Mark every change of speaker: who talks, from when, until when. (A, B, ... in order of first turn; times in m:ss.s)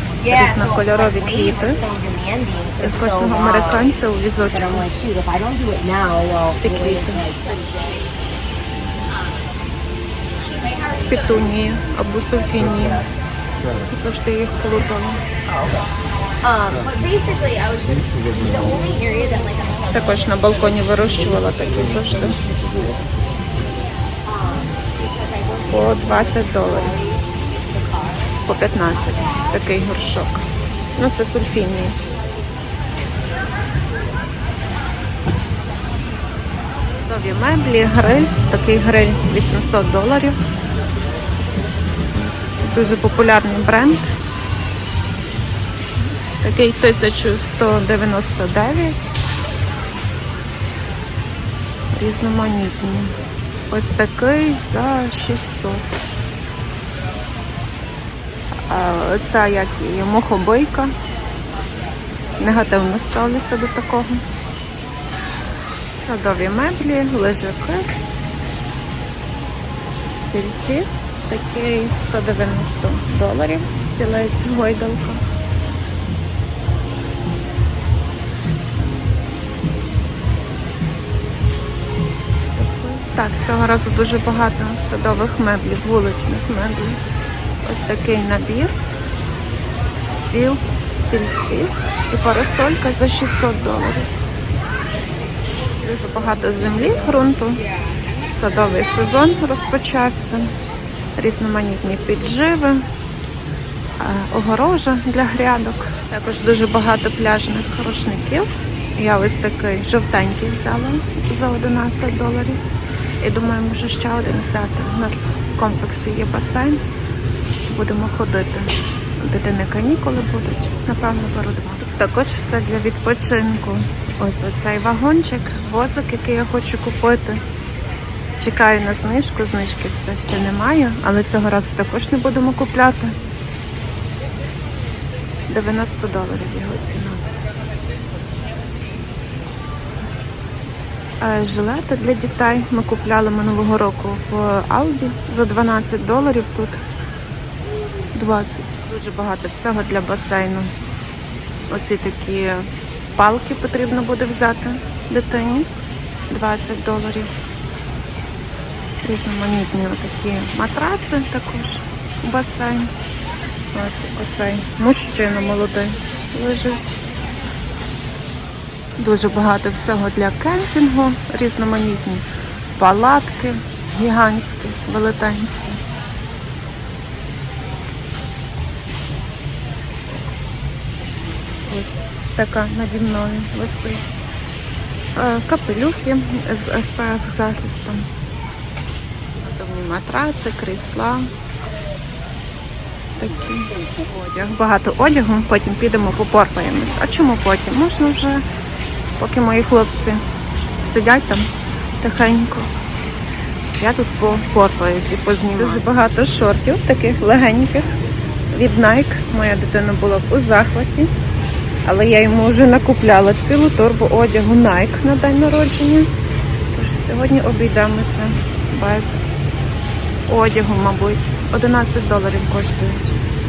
0:00.2-0:01.8 A
0:01.8-0:02.8 B
0:02.8-0:04.9 A
0:04.9-0:06.6 B
0:06.6-0:07.2 A
0:11.1-0:13.1 A
0:13.9-0:15.2 A
0:16.4-0:19.7 B
0:19.9-0:22.4 A
0:24.3-0:25.7 B
0:25.7-0:27.0 A
0:26.9-0:27.2 B
0:28.4-0:32.0 A
0:37.0-0:40.4 A
0:42.1-0:44.1 A
0:46.0-0:49.1 A
0:51.9-0:53.1 A
0:53.7-0:55.9 A
0:58.7-1:00.9 A
1:02.4-1:04.2 A
1:05.9-1:07.9 A
1:10.0-1:15.2 A
1:22.5-1:27.0 A
1:27.6-1:28.7 A
1:30.0-1:34.1 A
1:35.8-1:37.7 A
1:38.2-1:40.5 A
1:41.2-1:42.8 A
1:44.0-1:52.6 A
1:53.2-1:56.8 A
1:57.6-2:07.4 A
2:08.4-2:13.2 A
2:15.5-2:17.2 A
2:20.0-2:20.2 A
2:21.2-2:26.8 A
2:28.1-2:30.7 A
2:31.7-2:35.7 A
2:36.3-2:37.3 A
2:39.0-2:42.9 A
2:43.7-2:47.0 A
2:49.0-2:55.8 A
3:01.6-3:04.1 A
3:05.1-3:08.1 A
3:09.4-3:11.3 A
3:12.9-3:18.4 A
3:19.2-3:20.2 A
3:20.8-3:22.7 A
3:23.8-3:27.9 A
3:28.5-3:31.1 A
3:31.8-3:36.1 A
3:36.7-3:39.2 A
3:40.3-3:43.2 A